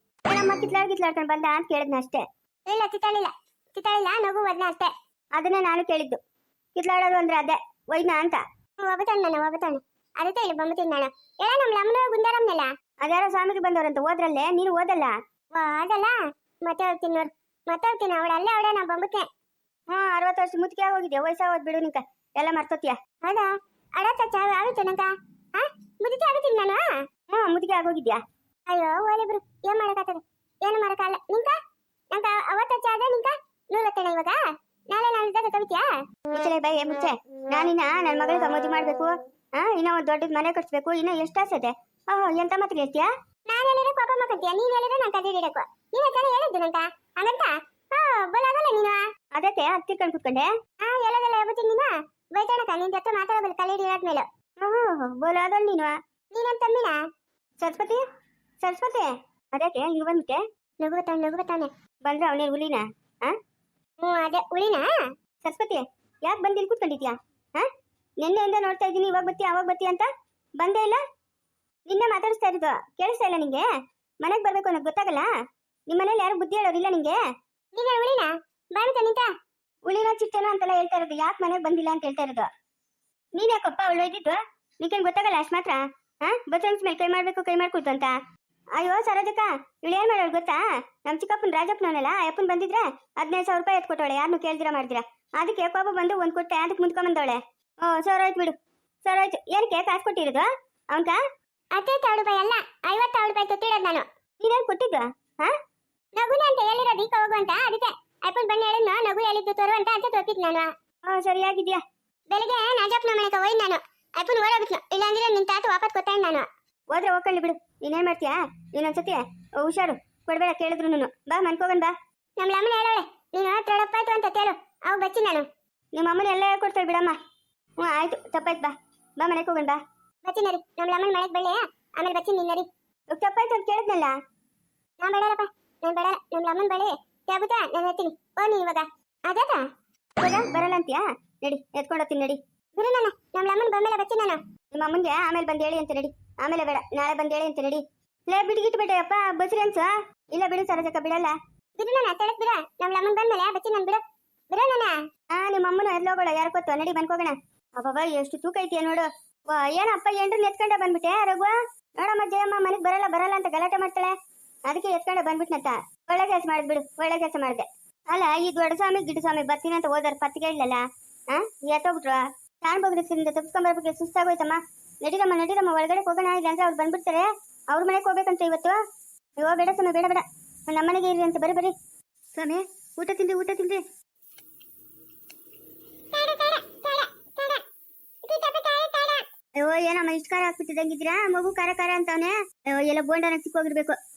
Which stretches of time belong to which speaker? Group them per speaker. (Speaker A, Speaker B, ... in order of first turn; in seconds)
Speaker A: 0.3-2.2, 5.3-6.2, 6.7-8.4, 13.0-15.1, 19.9-23.0, 27.3-28.2, 36.3-43.1, 49.3-50.5, 54.6-56.0, 57.6-58.0, 58.6-60.4, 62.0-63.4, 65.4-67.7, 68.2-70.1, 70.6-71.0, 71.9-73.7, 74.2-75.3, 75.9-77.2, 79.8-82.5, 83.3-88.1, 88.8-101.2, 104.4-105.5, 111.1-111.8, 116.9-121.9, 126.0-127.2, 127.8-129.8, 133.1-134.1, 140.2-142.4, 144.7-151.3, 155.3-164.1, 164.7-178.8, 179.4-181.7, 182.4-183.8, 189.6-194.0
Speaker B: 2.7-4.9, 8.8-12.7, 15.5-19.3, 23.2-26.9, 28.7-31.6, 32.1-36.0, 43.5-49.1, 50.8-54.3, 56.3-57.0, 60.8-61.7, 64.0-65.0, 77.8-79.3, 101.8-104.0, 106.1-110.7, 112.3-116.5, 122.4-125.5, 130.2-132.7, 135.0-139.6, 142.8-144.4, 151.8-155.0, 186.1-187.6, 188.2-189.3